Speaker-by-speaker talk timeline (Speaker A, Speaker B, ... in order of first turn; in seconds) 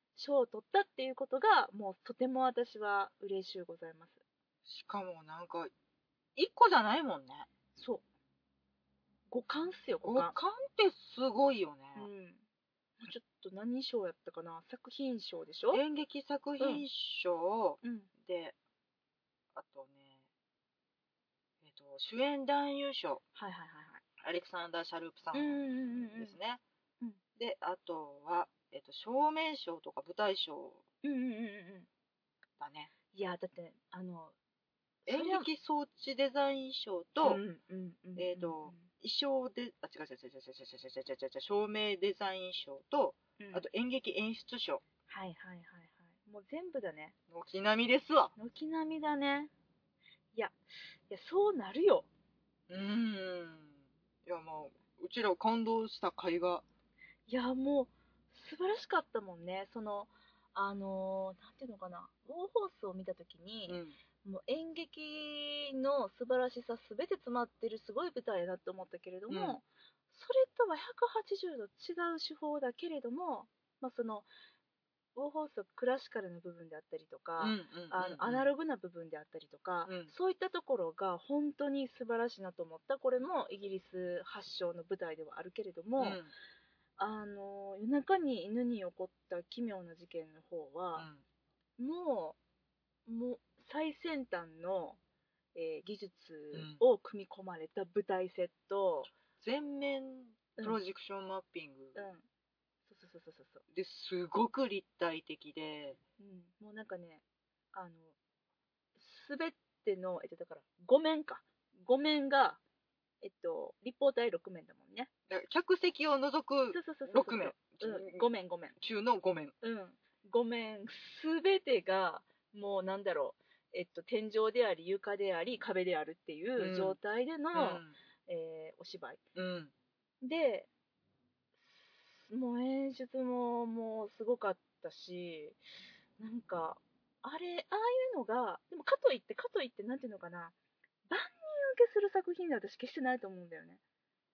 Speaker A: 0.1-4.2, 7.7-8.0, 9.3-10.3, 11.9-12.4, 13.0-15.8, 16.6-16.8, 17.8-18.1, 23.4-24.0, 25.3-26.3, 31.0-31.9, 33.1-34.3, 35.0-35.5, 37.2-38.9, 43.4-43.6, 45.1-47.1, 48.4-49.5, 51.1-52.1, 57.3-74.3, 75.2-86.2, 87.0-91.1, 91.8-92.4, 93.0-95.0, 95.5-99.1, 101.9-102.2, 102.9-103.6, 106.2-107.2, 107.7-108.1, 109.0-112.6, 113.2-115.1, 116.7-118.8, 119.6-129.2, 130.2-130.7, 131.6-135.6, 136.2-140.5, 141.1-143.8
Speaker B: 4.7-5.7, 6.3-7.5, 10.0-12.1, 15.7-18.5, 19.5-20.2, 21.6-23.2, 24.2-26.6, 27.4-30.8, 32.6-32.9, 35.1-37.4, 38.1-44.8, 47.3-48.3, 52.7-56.6, 63.7-64.0, 69.3-69.6, 77.4-78.5, 86.0-86.3, 91.0-91.2, 96.5-96.8, 99.4-102.0, 103.7-106.0, 115.3-118.2, 118.8-119.5, 126.6-127.0, 127.5-127.9, 129.3-129.7